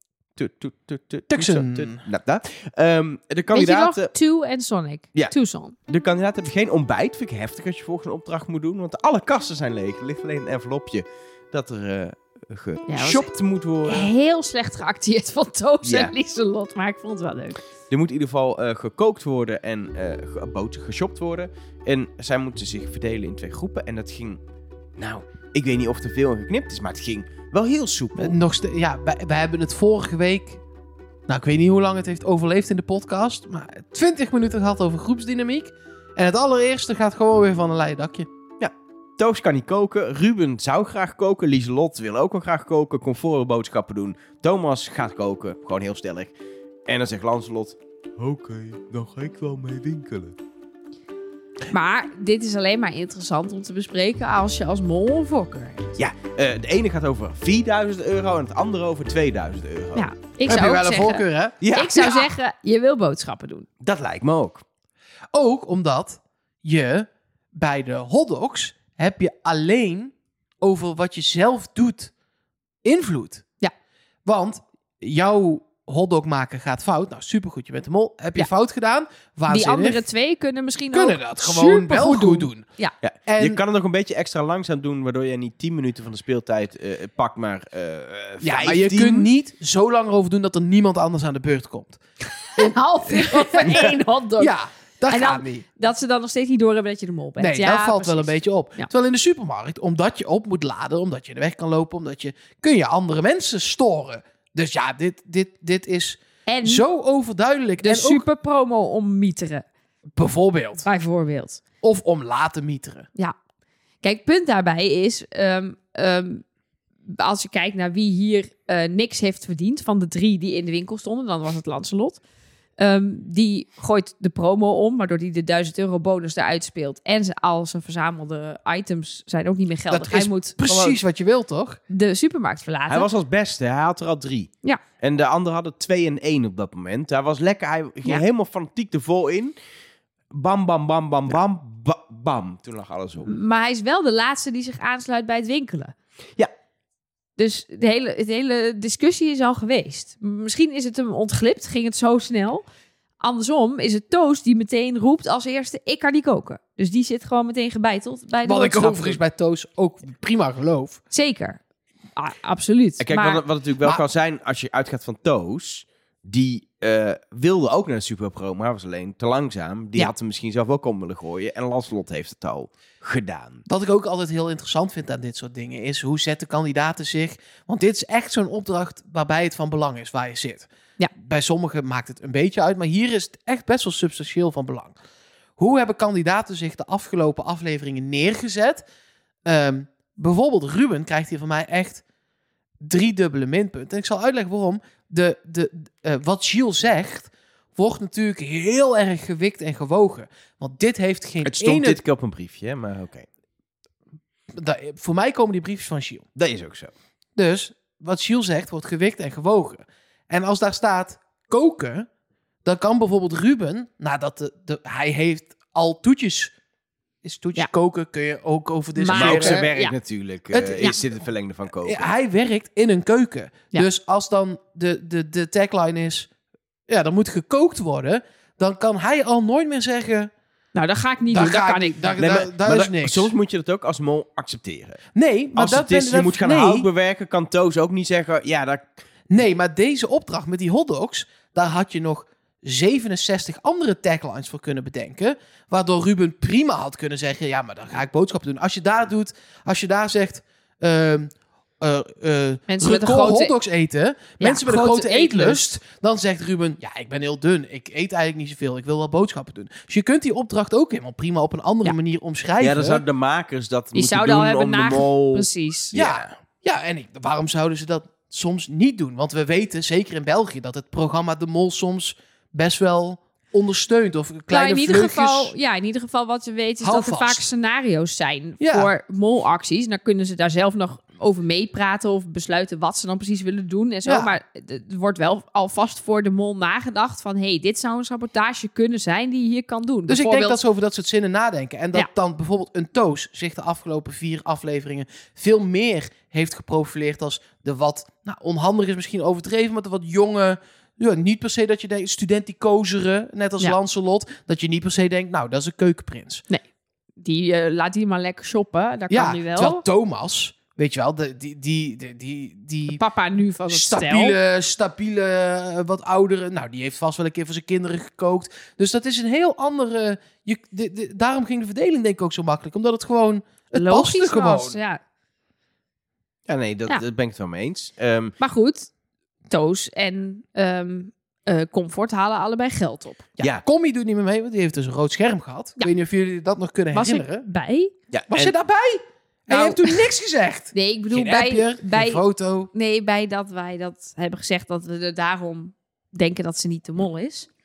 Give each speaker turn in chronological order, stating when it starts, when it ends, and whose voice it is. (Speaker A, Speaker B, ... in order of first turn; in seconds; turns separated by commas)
Speaker A: 0.3-4.1, Speaker B: 1.3-2.0, Speaker C: 3.5-5.8, Speaker A: 5.9-14.1, Speaker C: 12.9-13.3, Speaker C: 13.8-17.6, Speaker A: 15.8-16.1, Speaker A: 17.9-24.4, Speaker A: 25.0-28.4, Speaker B: 28.2-30.6, Speaker B: 31.3-38.3, Speaker A: 38.6-46.3, Speaker A: 46.9-50.3, Speaker C: 51.7-55.9, Speaker A: 56.0-60.1, Speaker C: 60.0-63.7, Speaker B: 60.4-62.3, Speaker A: 61.6-62.1, Speaker A: 63.8-64.6, Speaker B: 65.3-72.1, Speaker B: 72.8-73.4, Speaker B: 74.2-80.0, Speaker C: 79.5-83.0, Speaker B: 80.9-82.6, Speaker A: 83.0-89.3, Speaker B: 83.3-83.6, Speaker B: 88.4-92.0, Speaker C: 92.5-94.5, Speaker B: 92.5-95.6, Speaker C: 95.1-98.9, Speaker B: 97.4-108.3, Speaker C: 106.5-106.8, Speaker C: 107.8-109.6, Speaker B: 110.1-110.9, Speaker C: 110.8-111.6, Speaker B: 111.8-113.1, Speaker C: 114.0-116.4, Speaker C: 117.1-122.2, Speaker C: 122.8-131.0, Speaker B: 129.9-131.8, Speaker C: 131.9-133.1, Speaker A: 132.9-139.5, Speaker A: 140.3-143.3, Speaker C: 143.2-145.9, Speaker C: 147.4-152.6, Speaker C: 153.2-159.2, Speaker B: 158.4-161.0, Speaker C: 161.1-161.6, Speaker C: 162.2-163.4, Speaker A: 163.0-173.6, Speaker B: 173.7-184.9, Speaker B: 185.6-188.8, Speaker B: 189.4-192.0, Speaker B: 192.8-202.0, Speaker A: 201.4-203.3, Speaker B: 204.5-206.3, Speaker A: 206.3-206.9, Speaker B: 207.3-212.1, Speaker B: 212.6-216.5, Speaker B: 217.2-219.6, Speaker C: 218.9-219.9, Speaker A: 219.1-222.1, Speaker B: 220.5-221.1, Speaker B: 221.8-226.3, Speaker B: 226.9-230.3, Speaker C: 230.7-232.2, Speaker B: 231.3-233.3, Speaker A: 232.2-235.0, Speaker B: 235.1-236.9, Speaker A: 235.5-238.9, Speaker B: 239.3-263.0, Speaker C: 252.7-253.5, Speaker C: 254.4-255.7, Speaker A: 262.6-266.3, Speaker C: 263.9-265.9, Speaker B: 265.9-275.5, Speaker C: 274.5-290.6, Speaker B: 276.8-277.5, Speaker B: 278.6-278.9, Speaker B: 284.0-284.3, Speaker B: 290.1-306.4, Speaker C: 307.2-309.8, Speaker B: 309.1-313.0, Speaker C: 312.9-314.4, Speaker B: 313.7-324.8, Speaker C: 323.7-325.0, Speaker A: 326.5-328.3, Speaker C: 328.4-328.9, Speaker C: 329.5-333.3, Speaker B: 333.4-337.4, Speaker C: 336.9-337.9, Speaker A: 338.1-338.5, Speaker B: 338.3-342.7, Speaker C: 339.5-340.1, Speaker C: 340.7-342.2, Speaker C: 342.7-347.5